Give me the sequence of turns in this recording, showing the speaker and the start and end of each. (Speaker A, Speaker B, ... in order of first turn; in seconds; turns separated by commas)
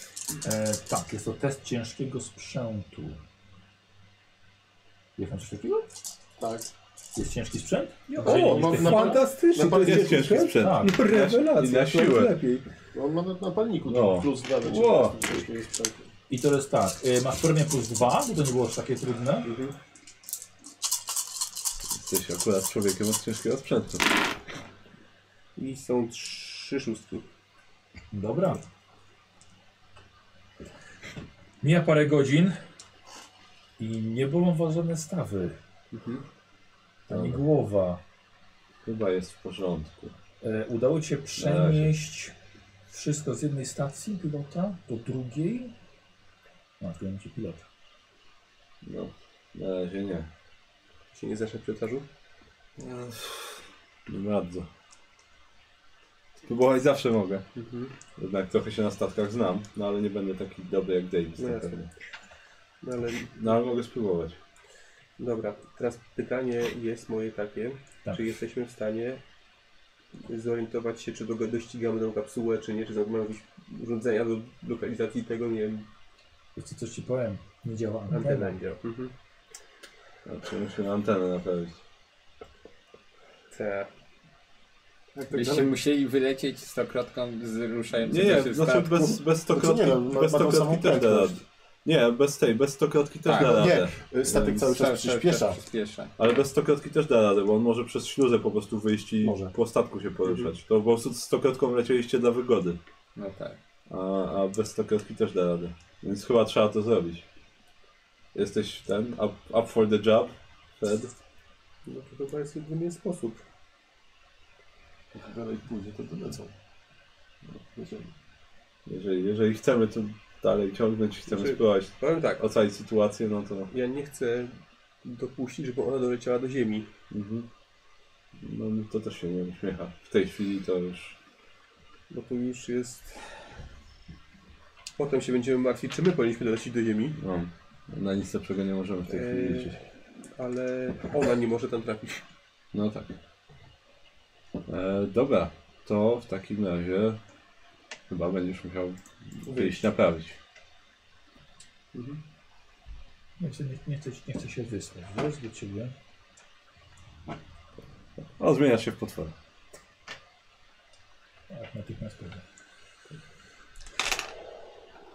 Speaker A: 0.4-3.2, Speaker A: 5.2-5.9, Speaker B: 6.4-6.7, Speaker A: 7.2-9.2, Speaker C: 8.1-12.7, Speaker B: 8.2-10.4, Speaker D: 9.8-12.4, Speaker A: 10.6-11.0, Speaker B: 12.9-16.0, Speaker D: 13.9-15.3, Speaker A: 16.3-19.5, Speaker C: 19.4-19.8, Speaker D: 21.9-24.1, Speaker C: 25.6-27.3, Speaker A: 28.1-28.6, Speaker A: 31.6-32.6, Speaker A: 33.8-35.6, Speaker C: 35.9-36.2, Speaker D: 37.1-37.4, Speaker A: 37.1-38.0, Speaker D: 38.9-40.1, Speaker A: 40.4-42.3, Speaker D: 41.4-41.9, Speaker A: 42.9-45.7, Speaker A: 46.8-47.6, Speaker D: 48.8-50.3, Speaker C: 51.1-52.1, Speaker D: 52.8-54.7, Speaker D: 56.4-57.5, Speaker C: 57.6-57.9, Speaker D: 58.1-61.9, Speaker C: 61.4-61.8, Speaker C: 62.8-63.7, Speaker D: 63.4-64.4, Speaker C: 65.2-69.2, Speaker C: 70.3-75.9, Speaker A: 76.6-78.6, Speaker C: 78.1-79.1, Speaker D: 80.2-81.8, Speaker C: 83.5-83.9, Speaker B: 85.2-85.7, Speaker E: 85.3-89.2, Speaker D: 88.0-93.9, Speaker B: 89.5-91.4, Speaker E: 93.2-96.1, Speaker B: 93.3-95.6, Speaker D: 96.2-102.8, Speaker B: 99.2-99.5, Speaker E: 103.2-103.6, Speaker D: 103.9-107.2, Speaker D: 108.3-111.1, Speaker C: 111.9-113.4, Speaker B: 115.1-116.5, Speaker C: 117.8-118.1, Speaker D: 118.9-123.7, Speaker C: 121.3-122.4, Speaker C: 123.7-126.9, Speaker D: 127.1-127.5, Speaker D: 128.4-131.2, Speaker C: 132.1-133.2, Speaker C: 135.0-137.2, Speaker D: 137.2-139.8, Speaker C: 139.1-139.8, Speaker C: 140.4-142.2, Speaker D: 142.7-143.2, Speaker D: 144.7-147.2, Speaker D: 148.1-150.4, Speaker C: 149.4-149.9, Speaker C: 151.9-152.2, Speaker A: 153.4-155.9, Speaker D: 158.4-159.3, Speaker A: 161.5-162.4